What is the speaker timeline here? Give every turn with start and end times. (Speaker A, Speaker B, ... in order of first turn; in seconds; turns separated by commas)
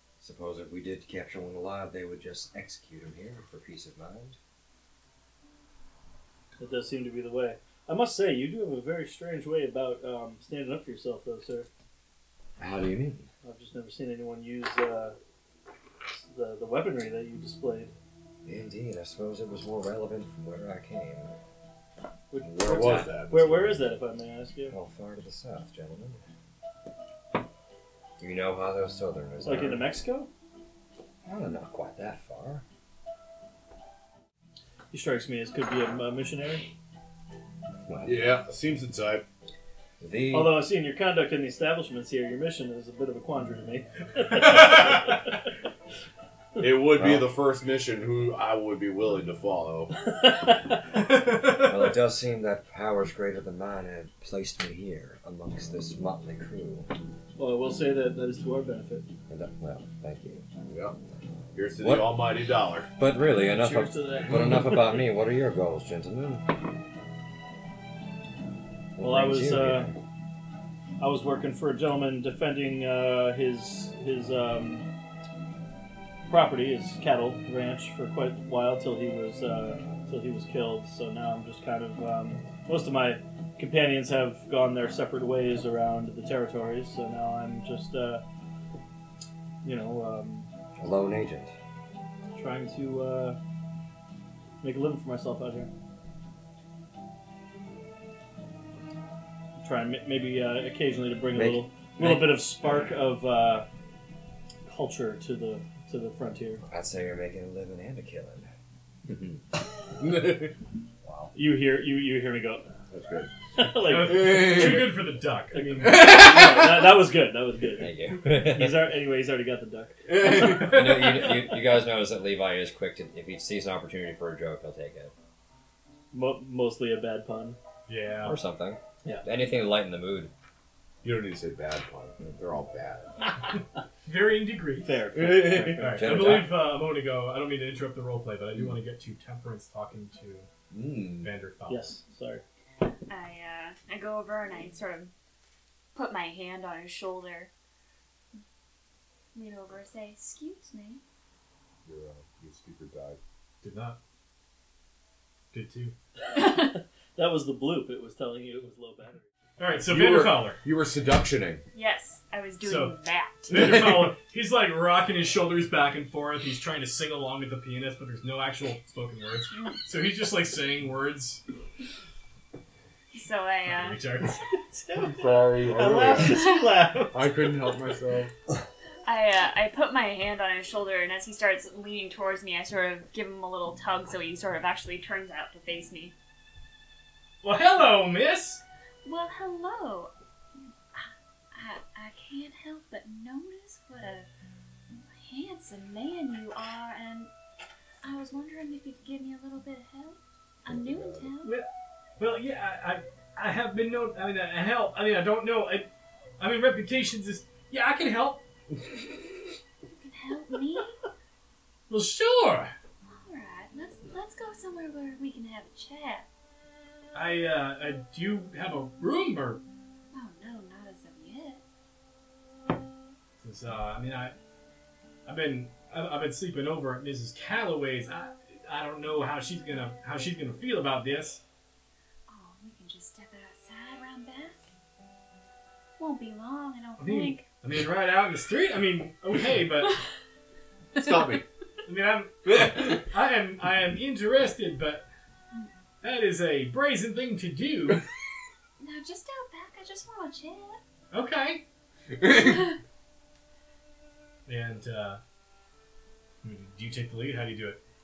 Speaker A: 0.2-4.4, Speaker B: 6.6-11.7, Speaker A: 12.6-13.3, Speaker B: 13.4-15.2, Speaker B: 16.1-17.9, Speaker A: 18.4-21.4, Speaker B: 22.3-24.8, Speaker C: 22.4-23.6, Speaker A: 22.6-23.2, Speaker A: 24.7-26.2, Speaker A: 28.2-29.9, Speaker B: 29.4-30.3, Speaker A: 31.2-32.6, Speaker B: 34.9-36.7, Speaker A: 37.9-38.4, Speaker C: 38.0-39.3, Speaker A: 40.0-40.7, Speaker B: 40.3-45.1, Speaker C: 46.6-50.0, Speaker A: 47.0-47.3, Speaker D: 51.1-51.7, Speaker A: 51.4-56.9, Speaker B: 57.4-59.1, Speaker A: 59.3-60.5, Speaker C: 60.7-61.0, Speaker C: 61.5-62.9, Speaker A: 61.8-62.4, Speaker A: 63.0-66.5, Speaker B: 63.3-65.0, Speaker A: 69.0-70.0, Speaker B: 69.0-69.9, Speaker B: 71.0-74.9, Speaker B: 76.3-88.2, Speaker B: 89.6-90.5, Speaker A: 90.8-91.5, Speaker B: 92.3-93.4, Speaker B: 94.6-95.7, Speaker B: 99.6-103.7, Speaker A: 101.3-102.5, Speaker B: 104.7-106.6, Speaker A: 106.7-108.5, Speaker A: 109.1-109.4, Speaker C: 110.0-110.5, Speaker A: 111.0-111.3, Speaker B: 111.3-112.7, Speaker C: 112.9-113.3, Speaker B: 113.5-115.0, Speaker D: 113.8-116.0, Speaker C: 114.1-114.9, Speaker B: 115.5-120.2, Speaker C: 115.8-116.8, Speaker A: 117.8-119.0, Speaker C: 120.1-120.8, Speaker A: 120.4-125.1, Speaker B: 126.1-127.6, Speaker D: 127.9-128.4, Speaker A: 128.2-130.3, Speaker C: 131.0-133.2, Speaker D: 134.1-134.9, Speaker B: 134.8-136.4, Speaker C: 135.2-135.8, Speaker D: 135.8-140.5, Speaker A: 135.8-136.6, Speaker C: 140.7-141.3, Speaker D: 141.2-141.9, Speaker B: 141.7-142.4, Speaker E: 143.1-145.1, Speaker E: 145.9-147.5, Speaker E: 149.3-151.0, Speaker C: 151.9-153.2, Speaker D: 153.6-154.0, Speaker D: 155.5-155.9, Speaker E: 156.3-156.7, Speaker B: 156.3-159.2, Speaker D: 159.6-160.6, Speaker C: 159.9-161.6, Speaker E: 161.7-163.7, Speaker D: 162.6-163.0, Speaker D: 163.5-171.4, Speaker C: 163.6-164.0, Speaker E: 173.1-174.0, Speaker D: 173.7-174.5, Speaker B: 174.6-177.4, Speaker C: 175.1-176.6, Speaker C: 177.1-178.3, Speaker E: 179.1-186.2, Speaker D: 187.4-188.6, Speaker E: 189.1-190.1, Speaker E: 190.9-194.3, Speaker E: 194.9-197.3, Speaker E: 198.0-201.6, Speaker C: 200.7-201.2, Speaker D: 201.4-201.7, Speaker D: 202.2-205.9, Speaker D: 206.4-208.4, Speaker E: 209.9-211.0, Speaker D: 211.9-212.7, Speaker E: 213.1-216.3, Speaker D: 217.1-219.6, Speaker E: 220.1-221.6, Speaker D: 223.4-224.4, Speaker D: 225.3-231.4, Speaker E: 232.3-234.6, Speaker E: 236.0-237.5, Speaker D: 237.0-240.0, Speaker C: 240.9-241.4, Speaker D: 241.8-245.1, Speaker C: 242.5-242.9, Speaker D: 246.0-248.0, Speaker E: 248.8-250.8, Speaker D: 251.1-251.6, Speaker C: 252.2-252.7, Speaker D: 254.5-255.2, Speaker D: 256.4-257.8